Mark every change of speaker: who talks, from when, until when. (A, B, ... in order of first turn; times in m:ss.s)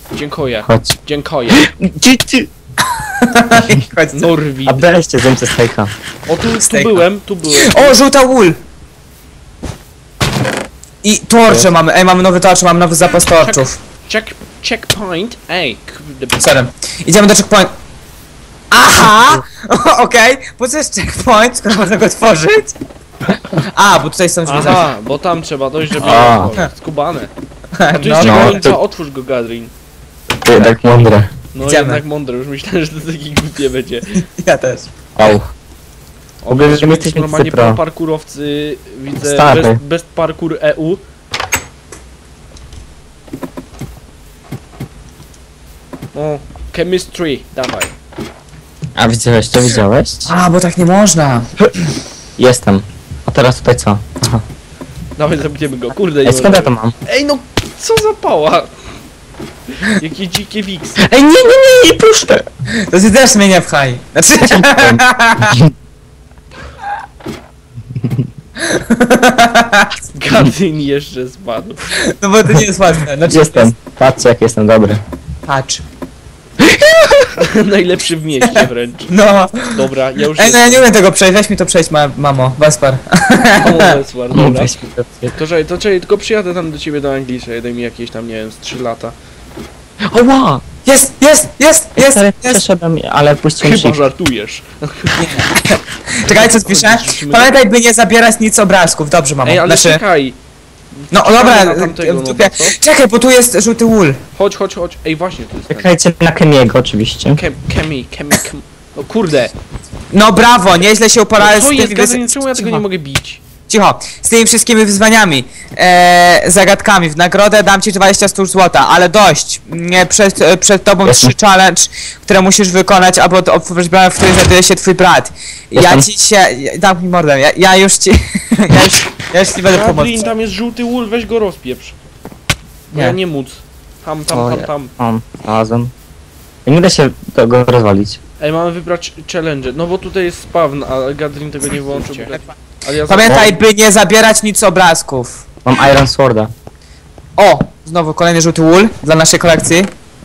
0:00.1-0:01.7 A
0:00.6-0:01.0 B
0:01.5-0:02.5 B
0:03.2-0:04.3 C
0:04.1-0:04.9 A
0:04.7-0:05.9 B
0:06.3-0:08.0 A
0:06.4-0:08.6 C
0:11.0-0:13.8 C
0:13.4-0:16.5 A
0:16.4-0:17.7 C
0:18.7-0:22.8 C
0:23.7-0:24.9 C
0:24.5-0:27.3 A
0:26.0-0:26.6 B
0:27.8-0:28.6 C
0:27.9-0:29.7 A
0:28.2-0:28.8 B
0:30.4-0:31.3 B
0:30.5-0:30.8 A
0:31.5-0:34.2 A
0:31.6-0:32.0 C
0:34.2-0:34.9 C
0:35.2-0:35.5 B
0:36.4-0:41.0 A
0:36.5-0:37.8 B
0:39.2-0:39.8 B
0:46.1-0:47.9 A
0:49.0-0:50.3 B
0:50.3-0:51.5 C
0:52.4-0:54.4 B
0:55.2-0:58.7 A
0:56.2-0:56.9 B
0:59.8-1:01.0 A
1:01.0-1:02.4 B
1:02.9-1:05.6 C
1:04.4-1:05.7 B
1:08.0-1:08.2 B
1:08.6-1:09.9 C
1:10.1-1:11.9 A
1:12.1-1:13.7 C
1:13.3-1:15.0 B
1:15.5-1:15.8 C
1:16.7-1:17.2 B
1:17.4-1:20.9 A
1:18.4-1:19.8 C
1:20.4-1:23.9 C
1:23.6-1:24.7 A
1:24.3-1:25.3 B
1:25.3-1:29.2 A
1:30.1-1:30.6 B
1:30.8-1:32.6 C
1:32.0-1:34.0 B
1:33.6-1:35.3 A
1:35.2-1:40.0 C
1:36.3-1:37.6 A
1:39.4-1:40.4 A
1:41.0-1:42.8 A
1:41.1-1:44.2 C
1:44.4-1:45.9 A
1:45.7-1:47.4 B
1:47.4-1:49.5 A
1:50.1-1:52.8 C
1:51.4-1:53.4 A
1:53.7-2:10.3 C
2:01.0-2:01.4 B
2:05.7-2:06.1 B
2:09.7-2:12.0 A
2:12.9-2:14.9 A
2:14.3-2:15.9 B
2:16.6-2:18.2 B
2:18.4-2:23.5 A
2:23.1-2:25.4 C
2:25.6-2:26.5 B
2:27.4-2:29.9 C